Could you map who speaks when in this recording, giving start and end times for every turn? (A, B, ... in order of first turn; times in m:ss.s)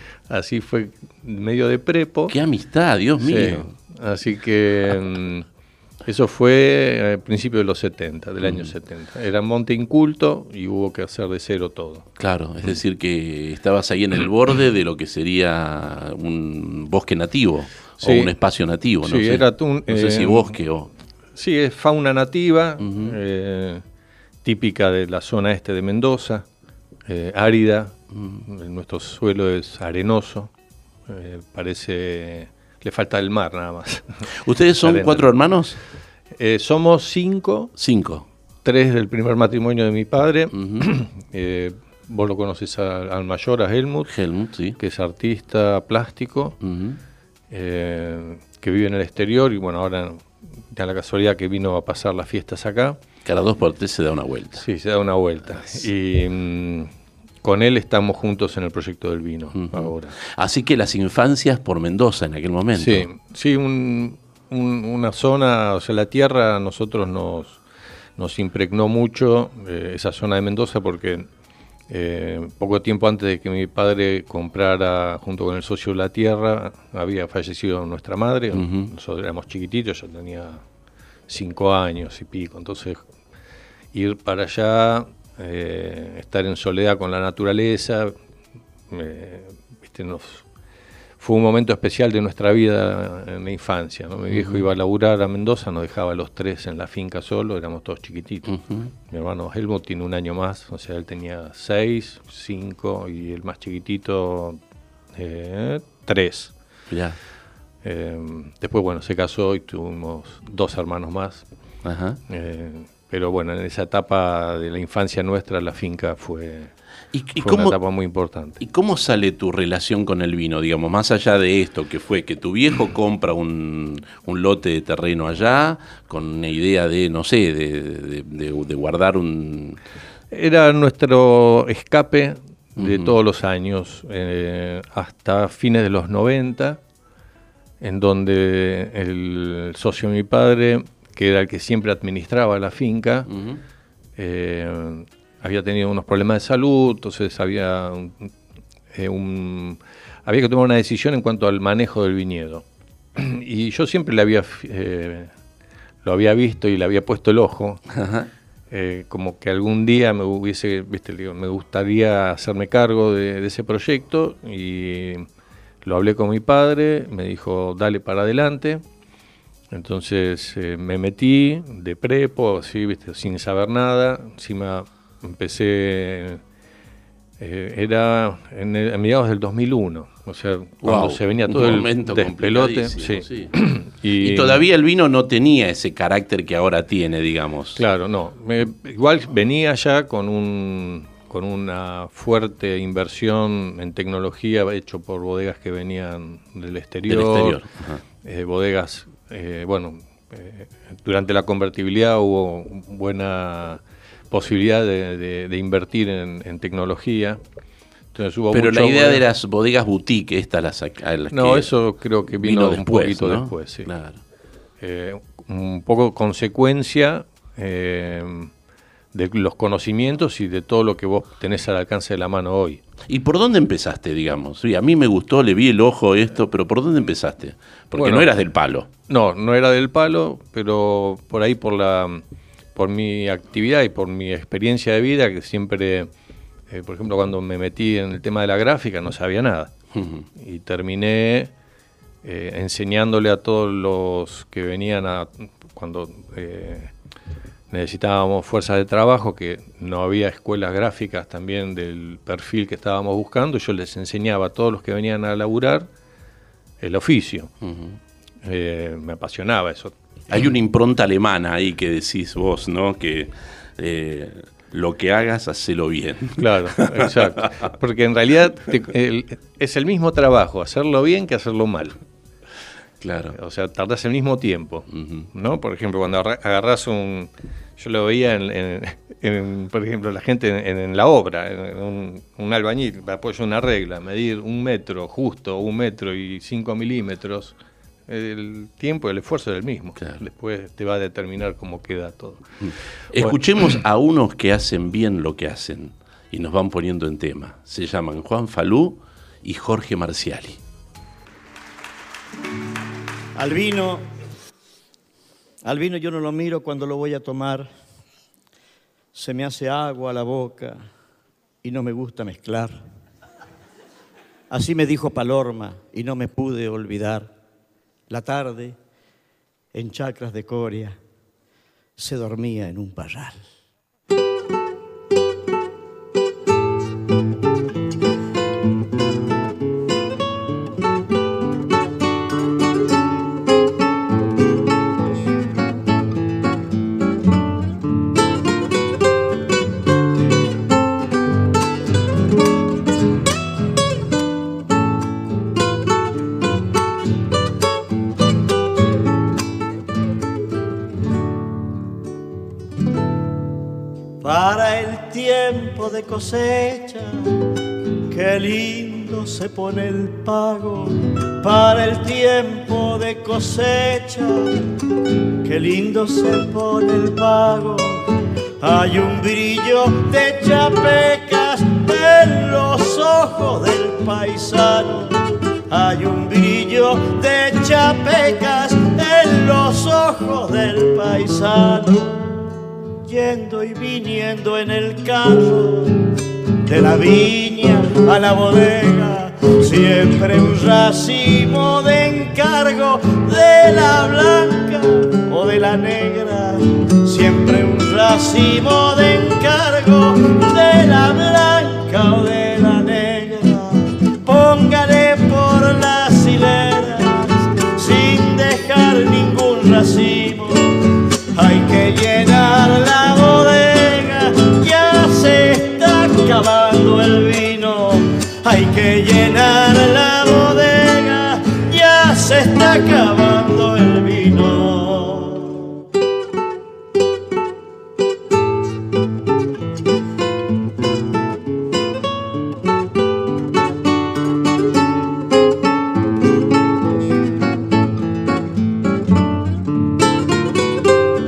0:00.3-0:02.3 A
0:02.3-0:03.7 B
0:03.2-0:05.4 A
0:06.0-0:12.0 A
0:12.2-0:20.9 B
0:18.0-0:18.3 A
0:19.0-0:20.5 A
0:21.3-0:23.8 A
0:24.4-0:26.4 A
0:27.1-0:30.5 A
0:31.1-0:34.1 A
0:34.4-0:35.8 B
0:34.8-0:35.3 A
0:36.4-0:37.7 A
0:37.8-0:38.2 B
0:38.6-0:44.1 A
0:40.6-0:40.8 B
0:44.1-0:44.8 B
0:44.8-0:46.5 A
0:46.6-0:47.0 B
0:47.5-0:53.0 A
0:53.2-0:54.6 B
0:54.6-0:56.9 A
0:57.4-1:00.1 A
0:59.6-1:03.1 B
1:02.8-1:07.6 A
1:08.2-1:11.3 A
1:11.9-1:20.6 A
1:18.5-1:18.9 B
1:21.3-1:23.0 A
1:23.9-1:28.1 A
1:28.9-1:30.4 A
1:31.2-1:38.5 A
1:34.3-1:34.6 B
1:38.5-1:38.9 B
1:39.1-1:44.6 A
1:45.1-1:46.5 A
1:46.9-1:47.2 B
1:47.8-1:51.4 A
1:51.8-1:52.2 B
1:52.3-1:56.7 A
1:57.1-1:57.8 B
1:57.4-1:58.6 A
1:58.6-2:09.8 B
2:10.3-2:16.8 A
2:12.8-2:13.1 B
2:17.8-2:23.3 A
2:23.3-2:23.6 B
2:24.2-2:28.3 A
2:28.9-2:32.6 A
2:33.2-2:35.3 A
2:36.0-2:37.8 A
2:37.9-2:38.3 B
2:38.7-2:45.3 A
2:45.8-2:48.8 A
2:49.7-2:56.4 A
2:57.4-3:04.6 A
3:00.8-3:03.5 B
3:04.2-3:07.8 B
3:07.8-3:17.6 A
3:17.1-3:18.0 B
3:18.2-3:27.4 A
3:28.1-3:29.2 A
3:28.5-3:31.7 B
3:31.3-3:33.9 A
3:32.3-3:34.2 B
3:34.8-3:38.5 A
3:39.1-3:42.8 A
3:43.1-3:48.9 B
3:47.9-3:48.3 A
3:49.1-3:52.2 A
3:52.7-3:56.1 A
3:56.7-3:59.7 A
3:59.9-4:00.2 B
4:00.4-4:01.5 A
4:02.2-4:06.9 A
4:07.7-4:15.9 A
4:16.8-4:17.5 A
4:17.6-4:18.0 B
4:18.4-4:19.9 A
4:20.3-4:27.7 B
4:26.4-4:32.0 A
4:33.0-4:33.3 B
4:33.3-4:47.5 A
4:35.0-4:35.3 B
4:48.1-4:52.4 A
4:53.1-5:00.6 B
5:03.3-5:04.0 C
5:05.6-5:07.7 C
5:09.1-5:10.8 C
5:11.6-5:12.8 C
5:14.5-5:17.3 C
5:18.1-5:18.8 C
5:19.7-5:21.0 C
5:22.0-5:23.5 C
5:54.2-5:57.4 C
5:58.1-6:04.5 C
6:05.4-6:08.0 C
6:08.6-6:22.5 C
6:23.0-6:26.1 C
6:26.6-6:50.8 C
6:51.3-7:05.6 C